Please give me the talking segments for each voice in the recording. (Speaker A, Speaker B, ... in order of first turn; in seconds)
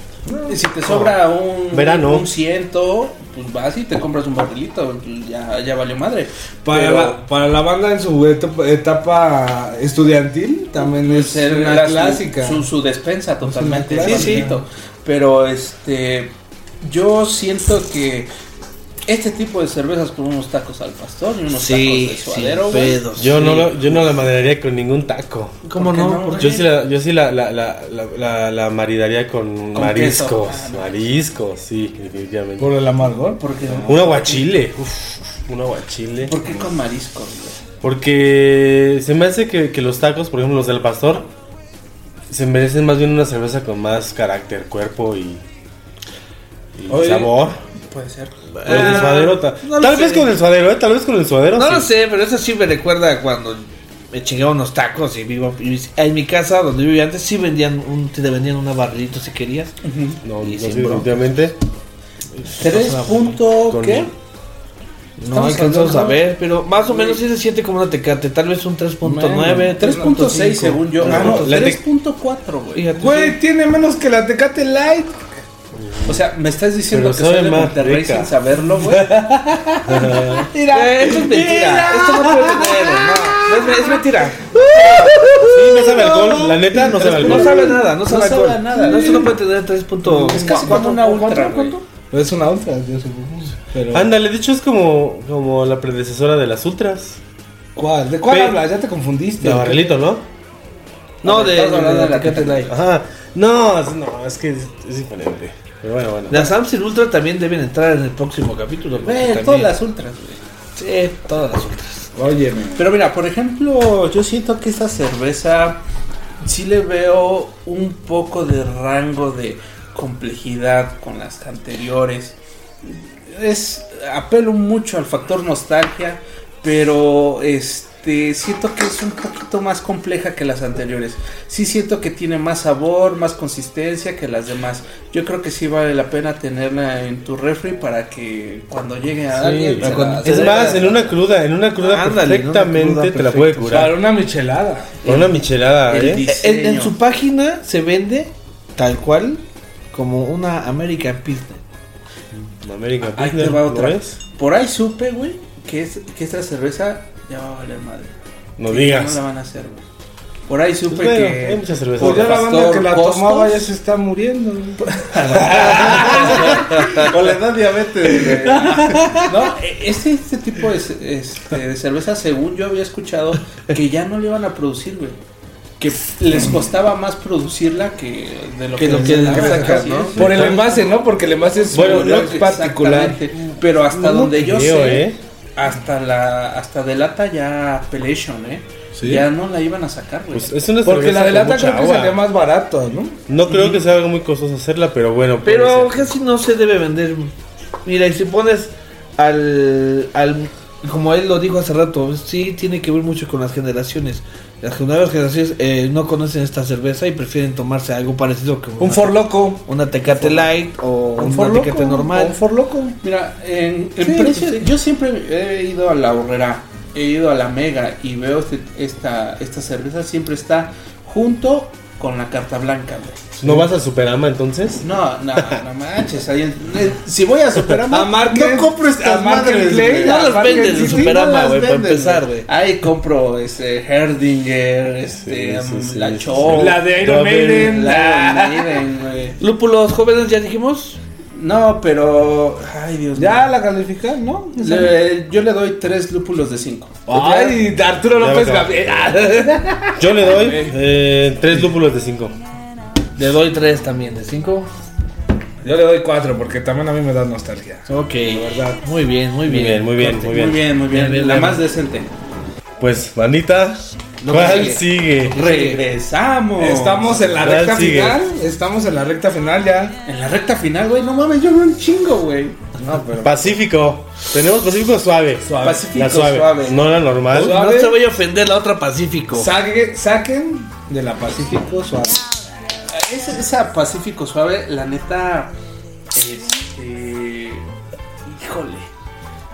Speaker A: 0.3-0.6, 6.6-12.7, 13.4-14.6, 32.6-33.9, 69.0-71.5, 73.0-75.2, 79.2-79.7, 80.5-84.0, 86.8-88.0, 88.7-89.4, 90.0-91.0, 92.1-94.1, 97.8-100.0, 112.2-112.9, 143.7-145.0, 162.0-167.3, 167.9-168.7, 178.8-183.2, 190.8-193.2, 208.8-210.4, 211.2-213.0, 227.9-232.2, 236.4-238.6, 243.2-244.9, 247.1-250.7, 255.6-258.8, 266.6-270.0, 272.8-273.4, 275.4-275.9, 277.3-278.1, 279.3-282.3
Speaker B: 0.5-7.2, 10.9-18.3, 19.1-23.0, 25.7-26.7, 29.7-30.9, 33.4-34.5, 36.3-37.6, 47.8-49.1, 59.8-60.2, 62.6-64.1, 65.3-66.2, 66.8-67.2, 69.8-72.8, 76.1-79.1, 87.6-89.4, 90.3-91.8, 101.2-102.8, 109.0-110.4, 112.8-115.8, 116.4-141.1, 145.9-146.9, 153.2-158.1, 158.7-159.8, 160.5-163.7, 164.8-166.7, 168.8-175.2, 175.8-180.2, 181.7-190.6, 213.0-223.3, 224.8-228.3, 230.2-231.1, 232.5-239.4, 241.3-243.5, 244.6-247.0, 260.2-262.1, 264.4-264.7, 265.3-267.2, 270.1-272.6, 275.6-276.8, 282.9-285.5, 286.1-287.7, 288.2-288.9
Speaker C: 0.9-1.1, 1.7-2.3, 23.2-25.6, 26.4-32.7, 33.7-36.3, 37.8-41.3, 42.3-45.4, 46.8-47.6, 48.6-51.9, 60.2-61.6, 62.4-64.1, 71.1-71.8, 75.8-76.3, 76.9-78.3, 79.8-80.5, 85.4-87.8, 93.9-97.2, 99.4-100.2, 102.7-106.5, 139.3-143.9, 145.0-146.2, 152.5-154.2, 158.6-159.2, 160.9-162.5, 165.4-169.0, 180.2-180.8, 181.7-182.4, 183.9-185.2, 190.3-192.2, 193.3-196.1, 223.4-224.8, 228.3-230.1, 235.2-237.8, 248.2-249.1, 250.0-252.4, 259.5-260.6, 262.8-265.4, 267.4-268.2, 273.2-277.6
Speaker D: 14.0-14.5, 21.5-23.8, 25.7-26.5, 46.9-47.3, 48.5-50.3, 51.5-59.7, 60.4-61.3, 62.6-63.2, 65.2-71.5, 72.7-73.4, 80.7-91.8, 98.2-98.6, 101.2-102.8, 106.3-109.7, 110.8-112.1, 139.8-140.8, 141.8-143.9, 146.2-151.6, 165.5-166.1, 166.7-167.0, 168.9-169.2, 178.8-180.4, 189.0-189.2, 195.4-197.3, 197.8-212.4, 214.0-214.6, 230.0-232.5, 239.4-241.0, 247.1-247.6, 250.2-250.7, 253.2-254.7, 257.9-260.4, 260.9-261.6, 264.2-265.8, 277.3-279.5